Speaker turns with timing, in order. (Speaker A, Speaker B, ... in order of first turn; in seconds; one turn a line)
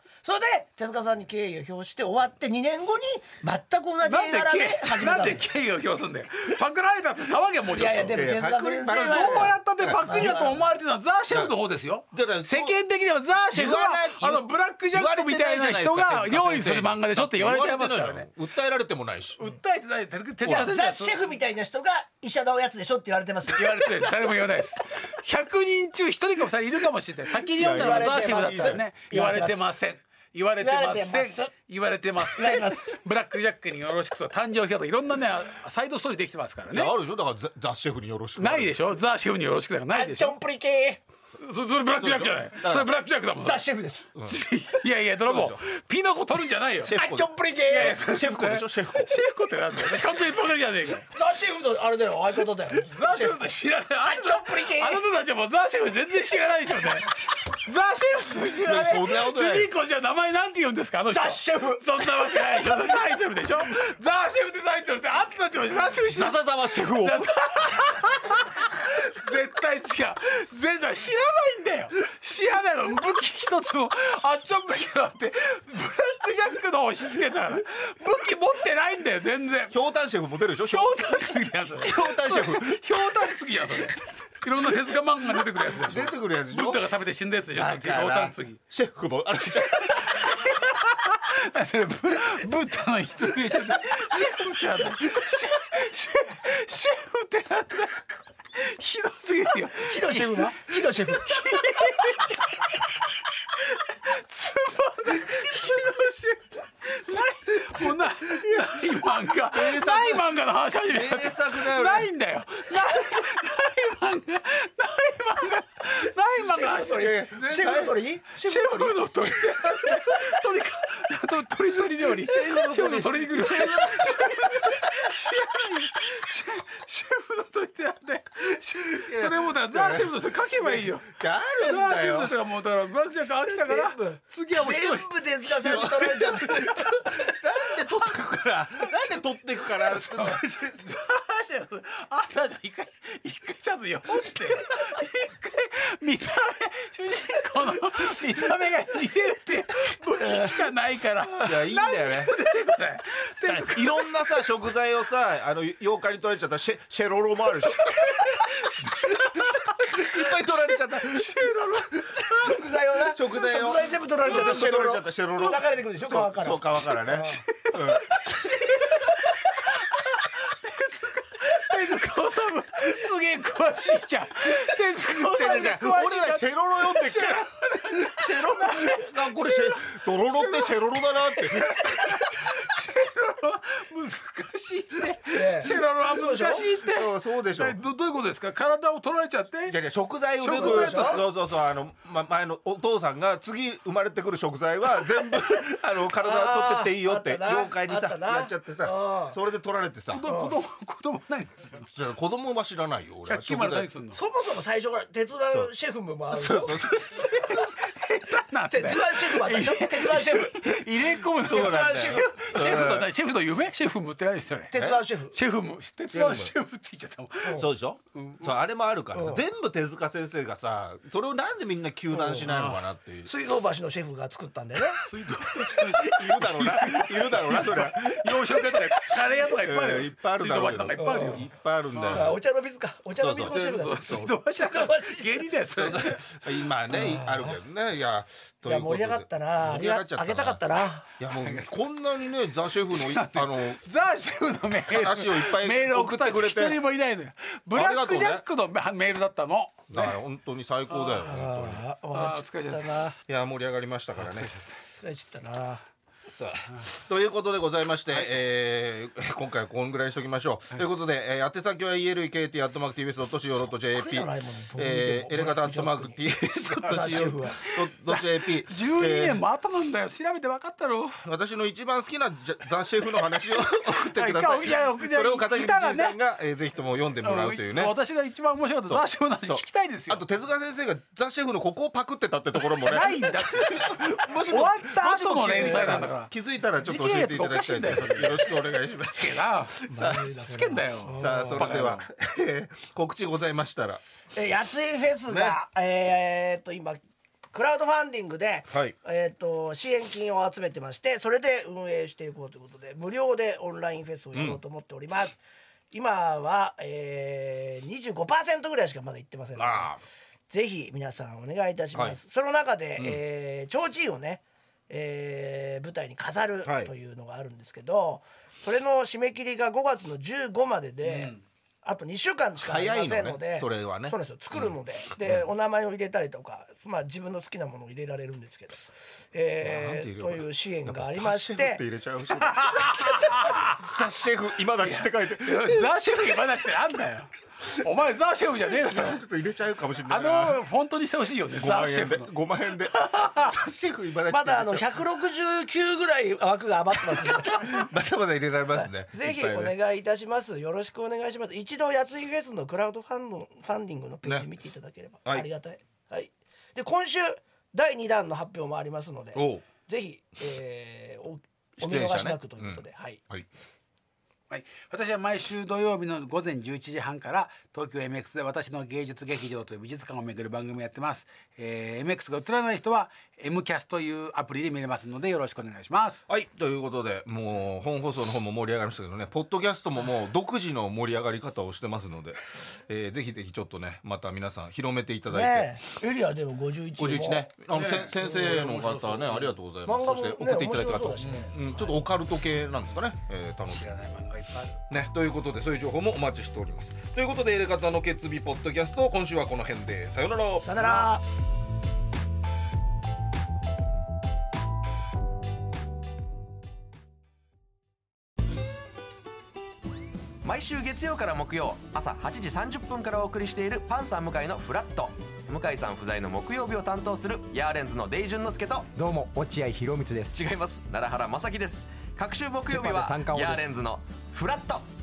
Speaker A: 0.2-5.4
Speaker B: 4.0-8.2
Speaker A: 7.7-10.5
Speaker C: 8.1-10.6
Speaker B: 8.8-18.3
Speaker C: 12.1-12.7
Speaker C: 13.5-19.4
Speaker B: 19.4-21.2
Speaker C: 20.4-20.7
Speaker A: 20.4-24.1
Speaker B: 23.5-36.9
Speaker C: 27.6-28.8
Speaker A: 27.6-29.6
Speaker A: 30.6-31.5
Speaker A: 32.3-32.9
Speaker C: 36.7-38.8
Speaker B: 38.4-40.4
Speaker A: 39.9-41.0
Speaker B: 41.4-43.7
Speaker C: 42.0-42.9
Speaker A: 43.4-44.0
Speaker B: 44.3-47.0
Speaker C: 45.2-45.6
Speaker C: 46.8-49.1
Speaker A: 46.9-48.0
Speaker B: 47.7-51.1
Speaker A: 51.1-53.5
Speaker B: 52.8-79.8
Speaker A: 54.0-55.0
Speaker C: 58.6-59.7
Speaker A: 61.1-61.8
Speaker C: 66.1-67.3
Speaker C: 79.7-81.0
Speaker B: 80.6-88.6
Speaker C: 81.8-82.8
Speaker C: 85.7-86.8
Speaker C: 87.5-90.3
Speaker B: 89.5-138.1
Speaker A: 99.8-101.5
Speaker C: 108.4-108.8
Speaker C: 109.5-110.3
Speaker C: 110.9-112.1
Speaker A: 116.4-119.0
Speaker C: 116.9-117.9
Speaker C: 119.6-120.2
Speaker C: 122.2-124.8
Speaker C: 128.9-132.3
Speaker A: 133.5-136.8
Speaker C: 135.6-140.4
Speaker B: 139.7-154.2
Speaker C: 151.4-152.3
Speaker C: 153.4-158.5
Speaker B: 157.7-162.6
Speaker C: 159.9-162.2
Speaker A: 162.4-167.4
Speaker C: 163.1-168.7
Speaker B: 164.3-164.5
Speaker B: 166.9-189.8
Speaker C: 175.2-182.3
Speaker A: 185.3-186.6
Speaker C: 186.8-187.8
Speaker C: 189.7-200.2
Speaker B: 190.4-191.2
Speaker A: 190.5-191.2
Speaker A: 196.2-199.3
Speaker B: 200.1-201.9
Speaker A: 200.3-200.5
Speaker C: 201.9-203.9
Speaker B: 203.2-204.2
Speaker A: 204.1-206.7
Speaker C: 206.3-207.0
Speaker B: 206.5-218.5
Speaker A: 208.7-210.6
Speaker C: 210.7-213.1
Speaker A: 211.6-212.3
Speaker A: 214.7-215.3
Speaker C: 214.7-215.0
Speaker C: 216.1-216.5
Speaker C: 217.5-223.3
Speaker A: 219.1-219.4
Speaker A: 222.1-222.5
Speaker B: 222.4-222.8
Speaker A: 223.2-225.0
Speaker B: 225.0-232.3
Speaker C: 225.8-232.4
Speaker A: 231.0-231.4
Speaker A: 232.1-234.2
Speaker C: 233.2-234.9
Speaker B: 233.3-236.4
Speaker C: 235.7-240.6
Speaker A: 236.9-237.6
Speaker A: 238.7-241.1
Speaker C: 241.2-243.8
Speaker B: 242.9-250.2
Speaker C: 244.9-246.8
Speaker C: 247.7-248.4
Speaker C: 249.9-251.8
Speaker B: 250.9-251.2
Speaker A: 251.2-253.1
Speaker B: 252.1-252.9
Speaker C: 253.2-254.5
Speaker B: 254.2-254.6
Speaker A: 255.0-255.8
Speaker C: 256.3-269.4
Speaker A: 263.9-266.2
Speaker A: 266.7-267.7
Speaker B: 268.1-271.2
Speaker C: 271.1-277.9
Speaker B: 273.5-276.2
Speaker B: 277.2-280.2
Speaker C: 278.9-290.3
Speaker B: 282.8-286.3
Speaker A: 285.5-286.1
Speaker B: 286.8-292.0
Speaker A: 289.9-291.9
Speaker C: 291.1-294.0
Speaker A: 294.3-297.0
Speaker C: 295.3-295.6
Speaker A: 297.5-309.9
Speaker C: 298.7-298.9
Speaker C: 304.3-304.6
Speaker C: 309.6-310.0
Speaker A: 310.5-331.8
Speaker C: 316.6-316.9
Speaker B: 321.0-321.4
Speaker C: 322.6-324.7
Speaker C: 329.6-335.9
Speaker B: 332.4-333.8
Speaker B: 334.8-339.2
Speaker C: 338.9-340.6
Speaker B: 340.1-343.5
Speaker C: 341.6-345.0
Speaker A: 344.3-347.9
Speaker C: 347.2-349.7
Speaker A: 348.8-363.2
Speaker C: 359.3-359.6
Speaker C: 361.8-363.5
Speaker B: 364.5-376.2
Speaker C: 376.3-385.8
Speaker A: 385.3-387.5
Speaker C: 387.0-393.9
Speaker B: 387.7-389.6
Speaker A: 389.8-391.6
Speaker B: 391.2-391.5
Speaker B: 393.7-394.8
Speaker C: 394.9-400.9
Speaker A: 400.6-401.2
Speaker D: 410.4-418.9
Speaker E: 418.9-420.4
Speaker D: 420.3-424.9
Speaker E: 422.6-423.8